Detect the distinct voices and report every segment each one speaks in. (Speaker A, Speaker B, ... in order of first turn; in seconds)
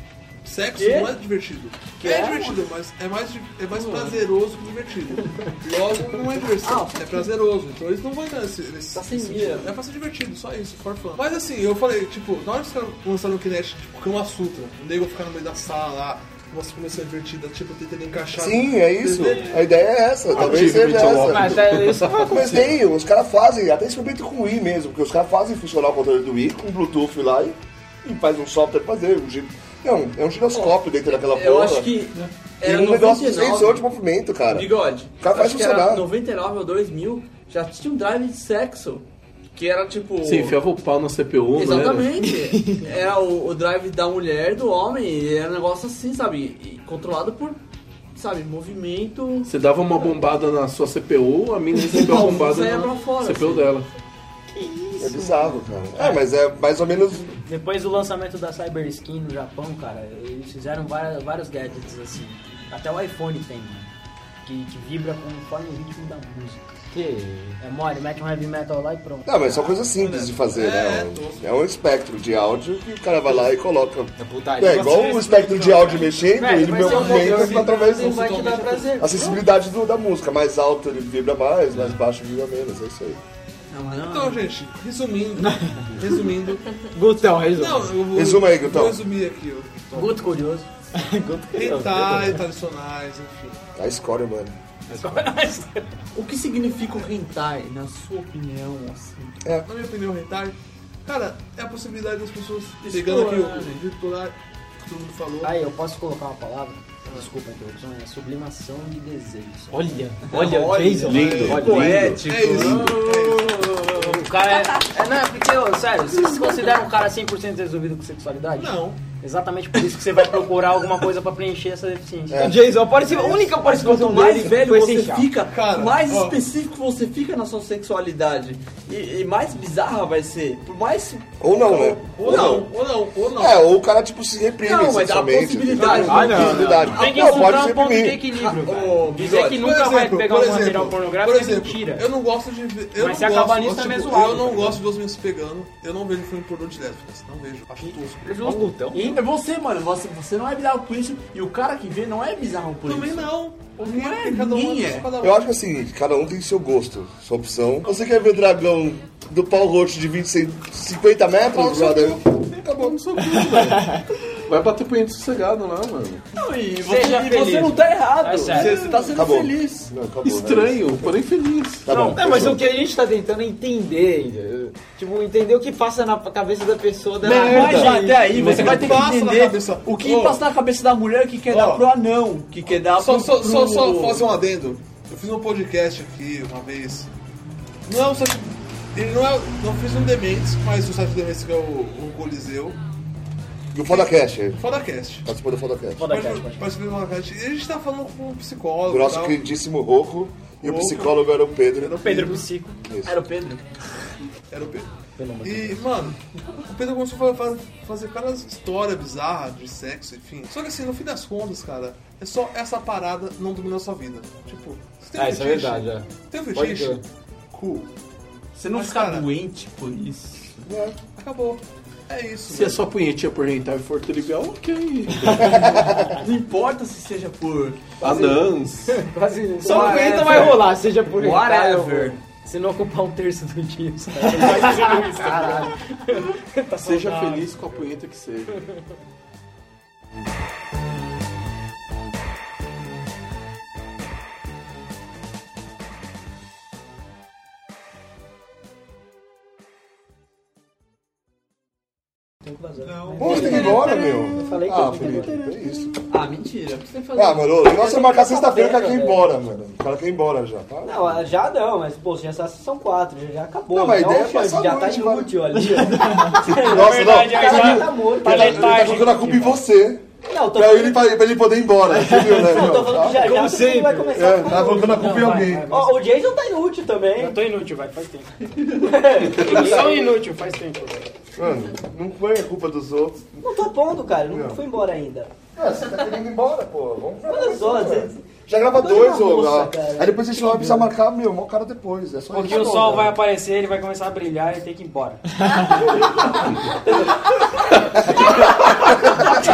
Speaker A: 0.4-19.6, 69.9-71.5, 74.7-76.2, 76.8-79.0, 84.0-86.7, 87.5-90.2, 91.5-93.6, 99.6-105.6, 111.1-113.8, 118.5-119.0, 123.0-123.5, 125.4-126.4, 131.8-133.8, 135.8-136.7, 139.2-148.8, 152.8-155.4, 161.5-162.9, 168.5-168.9, 177.2-180.4, 181.5-181.9, 182.8-187.1, 187.8-192.8, 193.8-195.3, 196.0-199.4, 200.6-201.2, 201.8-202.5, 204.5-204.9, 205.4-217.9, 218.7-219.3, 221.2-222.8, 253.1-253.5
Speaker B: 0.8-1.1, 2.0-2.7, 3.7-4.2, 6.6-7.3, 8.9-9.8, 30.5-33.9, 34.5-40.6, 41.5-47.6, 48.1-49.5, 51.9-53.7, 83.7-84.4, 96.1-99.4, 102.8-103.8, 110.3-114.2, 116.2-116.7, 123.2-132.7, 134.6-137.7, 138.3-139.7, 148.9-155.1, 166.3-169.9, 177.2-184.2, 203.0-203.6, 218.5-220.5, 226.2-228.0, 229.6-232.2, 253.1-254.3, 256.1-257.7
Speaker C: 18.4-21.6, 22.3-31.9, 32.6-34.7, 35.2-36.1, 55.0-57.3, 69.2-78.3, 78.9-83.2, 88.1-89.0, 93.8-94.5, 122.3-122.6, 131.4-132.7, 133.4-138.2, 155.2-162.4, 169.1-171.1, 171.8-172.6, 193.7-194.6, 195.2-196.1, 198.9-202.2, 202.8-203.2, 220.7-221.0, 225.4-226.2, 253.2-255.9, 257.1-261.2, 263.7-265.3, 266.4-273.4, 274.1-275.7, 281.4-283.4, 284.3-284.6, 285.6-293.2, 298.0-298.7
Speaker D: 20.3-22.4, 40.2-42.2, 49.4-53.9, 111.0-112.3, 162.7-166.2, 170.2-171.9, 222.5-225.8, 228.0-229.0, 236.8-238.6
Speaker E: 20.4-22.7, 42.3-42.9, 54.5-55.6, 66.9-67.6, 74.2-79.3, 86.9-87.9, 90.9-92.4, 94.9-95.2, 109.7-112.0, 122.4-125.3, 136.1-139.0, 143.1-144.7, 147.8-149.2, 163.2-164.0, 166.8-167.8, 172.1-178.8, 215.2-217.0, 225.1-225.8, 229.6-232.2, 234.5-234.7, 273.2-274.1
Speaker F: 57.4-63.9, 64.4-66.7, 67.6-69.7, 94.9-95.8, 105.5-110.0, 114.0-122.5, 137.0-138.5, 139.0-142.1, 143.0-144.3, 168.2-168.8, 202.3-202.7, 205.4-205.8, 228.9-229.7, 232.7-233.1, 234.1-237.8, 265.6-269.5, 274.3-276.1, 277.1-278.3, 279.4-281.1, 292.3-295.9
Speaker G: 90.0-90.6, 196.0-196.6, 202.0-202.4, 205.2-205.7, 228.0-228.6, 229.1-230.4, 233.7-235.7, 252.5-256.0, 257.7-259.3, 260.8-269.2, 270.3-271.0, 272.0-277.4, 278.8-280.1, 283.4-285.3, 287.3-290.9